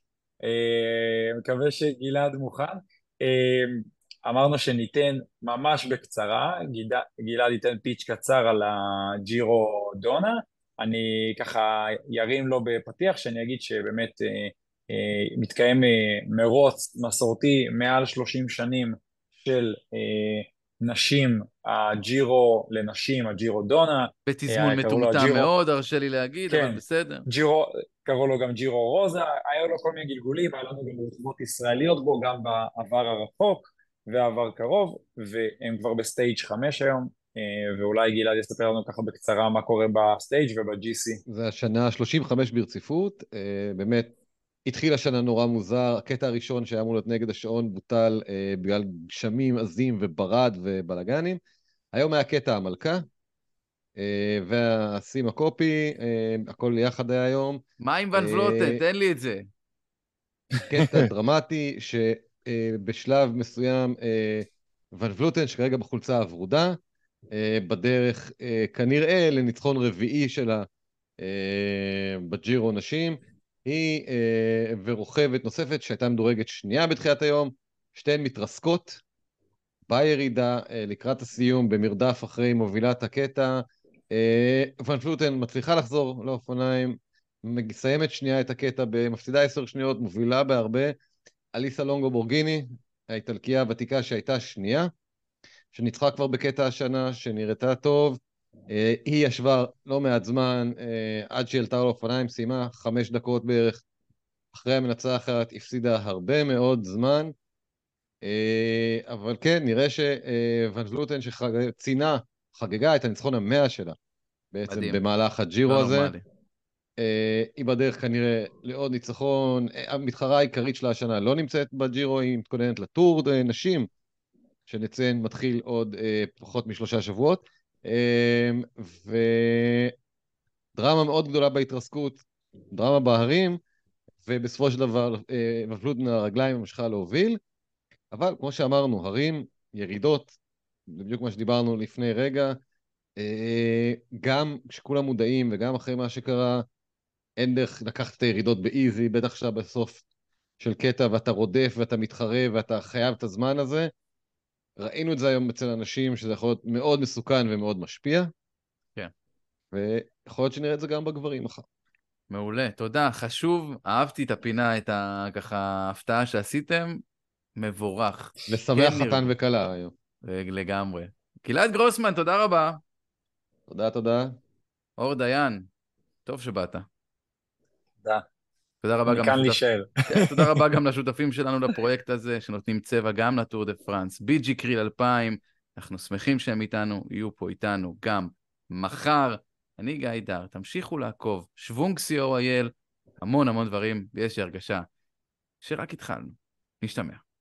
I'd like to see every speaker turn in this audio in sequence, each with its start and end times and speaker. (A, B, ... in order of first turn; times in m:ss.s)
0:00.4-0:25.5 A
0:24.2-0:27.2 B
0:26.5-0:41.2 A
0:41.3-0:44.1 C
0:44.6-0:51.4 C
0:51.9-0:53.0 C
0:54.0-0:57.6 C
0:57.8-0:59.5 B
0:58.1-0:58.8 C
1:00.7-1:06.8 C
1:07.3-1:10.7 C
1:11.2-1:19.0 C
1:19.9-1:30.9 C
1:31.5-1:34.9 C
1:35.7-1:43.8 C
1:44.5-1:47.3 C
1:48.2-1:54.0 C
1:54.5-1:56.1 C
1:54.7-1:55.0 B
1:55.6-1:56.2 B
1:57.0-2:03.9 C
2:04.7-2:09.9 C
2:10.7-2:13.6 C
2:14.2-2:17.4 C
2:18.1-2:20.4 C
2:20.9-2:22.6 C
2:23.2-2:26.6 C
2:27.4-2:30.0 C
2:30.6-2:33.9 C
2:34.8-2:38.3 C
2:39.7-2:41.6 C
2:42.3-2:47.0 B
2:47.6-2:49.3 B
2:48.5-2:49.9 C
2:50.2-2:52.8 B
2:53.7-2:54.4 C
2:55.0-2:55.7 B
2:56.2-2:56.8 B
2:58.8-3:14.9 B
2:59.1-3:00.6 A
3:15.6-3:17.2 B